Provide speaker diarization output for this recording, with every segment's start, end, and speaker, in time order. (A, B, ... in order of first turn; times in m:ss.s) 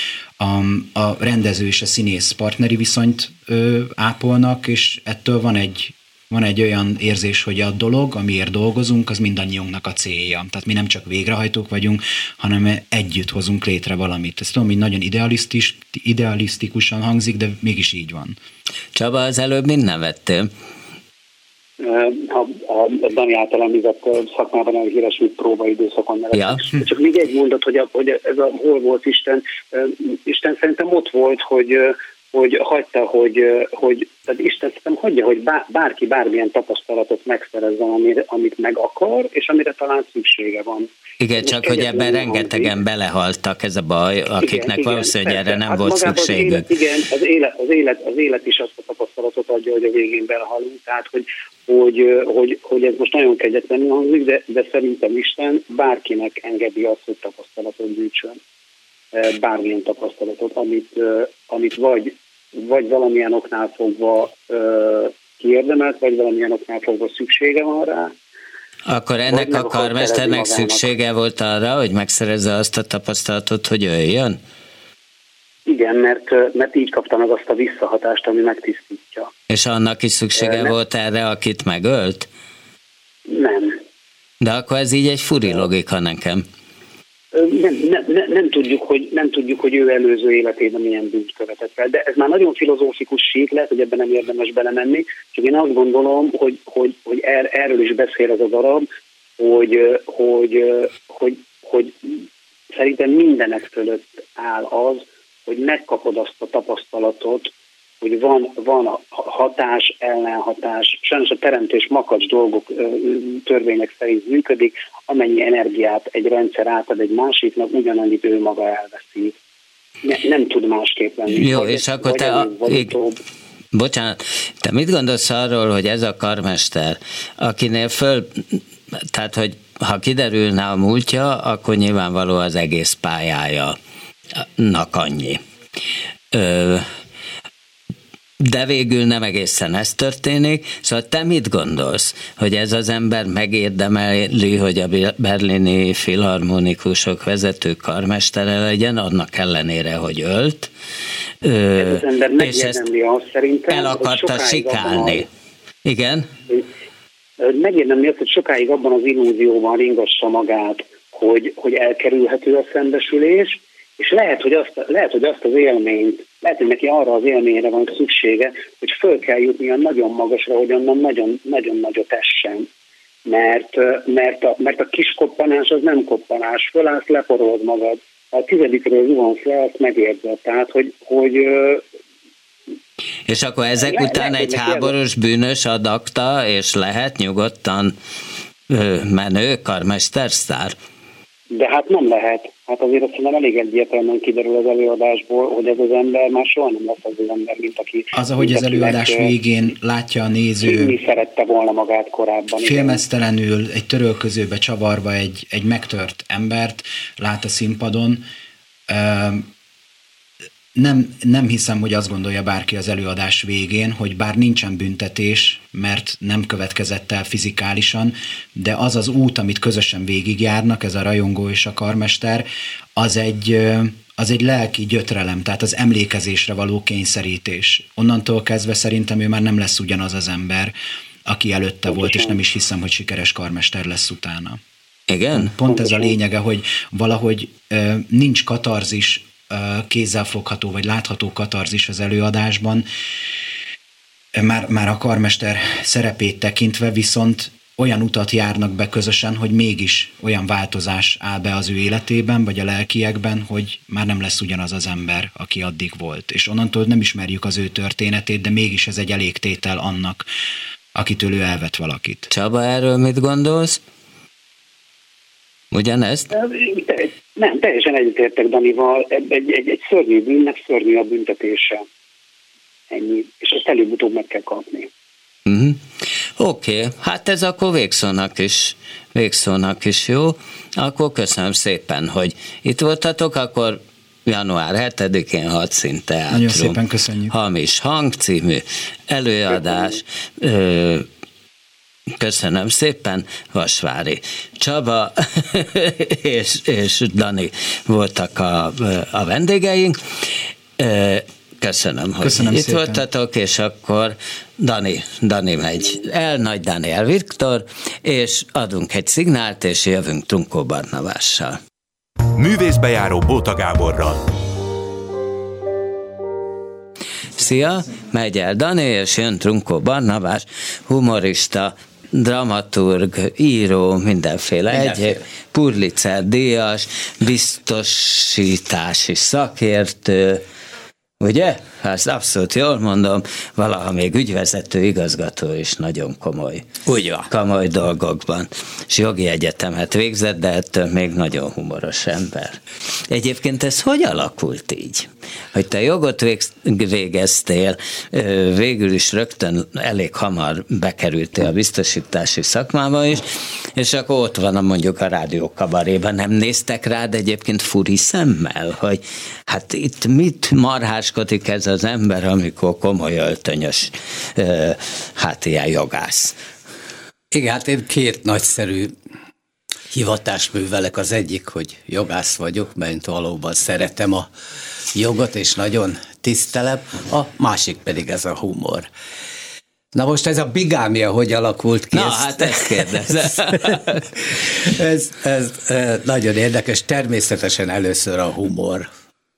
0:00.4-0:18.4 A
0:18.9-0:20.5 B
0:21.8-0:40.9 C
0:26.3-0:26.6 B
0:41.2-0:46.7 B
0:41.4-0:42.7 C
0:44.4-0:58.4 C
0:59.1-1:08.1 C
1:08.9-1:14.4 B
1:09.3-1:10.9 C
1:15.7-1:19.3 C
1:19.5-1:22.3 B
1:20.4-1:20.7 C
1:23.3-1:23.8 C
1:24.4-1:26.4 B
1:27.3-1:38.8 C
1:39.4-1:47.5 C
1:48.0-1:59.3 C
2:00.0-2:03.2 C
2:01.3-2:02.9 B
2:03.7-2:13.8 B
2:14.3-2:15.4 B
2:16.3-2:16.9 B
2:18.4-2:30.7 B
2:31.4-2:32.8 B
2:31.8-2:35.2 C
2:33.7-2:35.3 B
2:35.8-2:36.3 B
2:37.4-2:52.7 C
2:53.2-3:01.8 C
3:03.3-3:07.9 B
3:03.8-3:04.9 C
3:08.7-3:10.7 B
3:11.5-3:19.3 C
3:18.1-3:21.0 A
3:20.6-3:23.0 C
3:22.6-3:28.2 A
3:28.9-3:29.5 A
3:30.7-3:50.7 A
3:51.2-3:54.6 A
3:51.9-3:52.4 C
3:55.1-3:55.5 B
3:55.3-4:02.8 A
3:55.7-3:56.1 C
4:04.3-4:20.2 A
4:20.9-4:22.3 A
4:22.3-4:23.8 B
4:25.7-4:26.3 B
4:26.3-4:31.8 C
4:32.9-4:34.9 C
4:35.4-4:35.8 B
4:36.4-4:46.8 B
4:46.3-4:47.3 A
4:47.3-4:51.1 B
4:52.2-5:00.0 B
5:00.8-5:11.6 B
5:02.2-5:03.0 A
5:12.4-5:14.4 D
5:17.4-5:30.4 B
5:24.7-5:25.2 E
5:31.2-5:36.7 B
5:36.8-5:37.3 E
5:37.3-6:06.3 B
6:07.3-6:08.9 E
6:09.9-6:14.3 E
6:14.9-6:18.9 E
6:19.9-6:28.9 E
6:21.9-6:24.0 B